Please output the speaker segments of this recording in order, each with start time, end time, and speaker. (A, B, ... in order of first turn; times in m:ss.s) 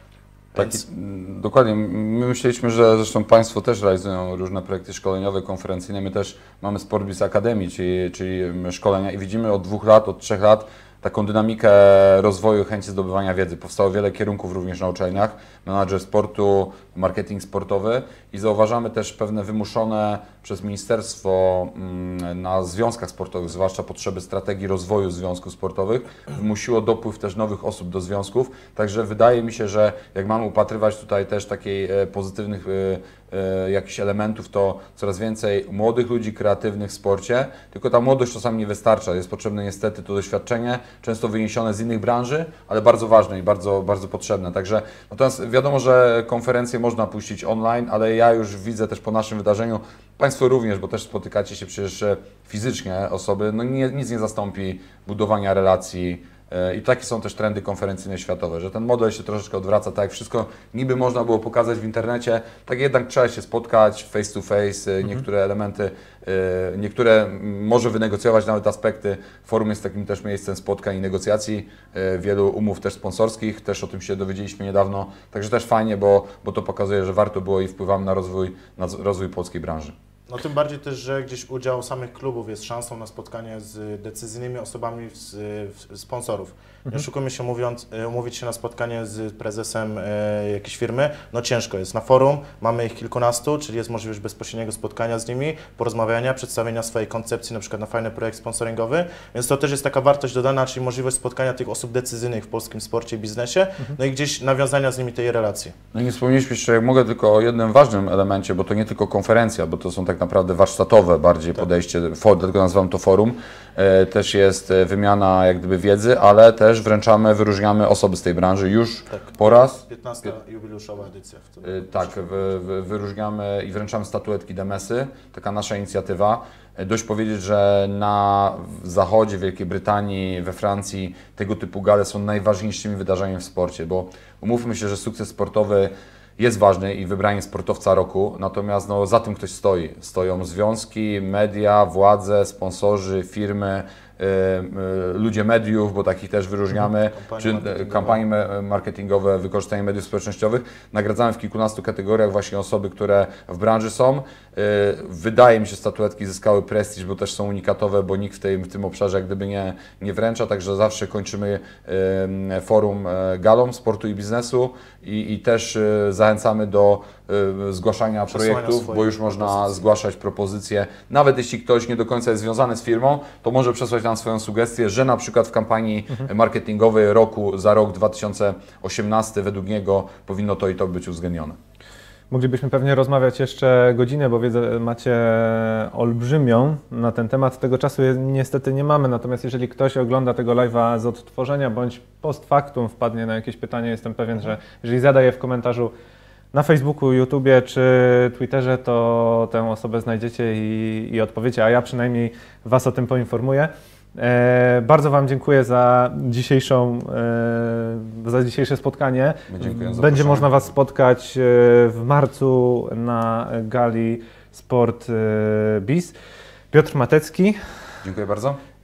0:00.5-0:00.8 A
0:00.6-1:20.0 B
1:20.3-1:45.8 A
1:45.9-1:59.8 B
1:59.1-2:02.4 A
2:01.6-3:01.6 B
2:27.1-2:28.2 A
2:48.3-2:49.9 A
3:02.3-3:15.9 C
3:16.5-3:36.1 C
3:29.5-3:30.5 B
3:36.7-3:37.6 C
3:38.0-3:38.6 B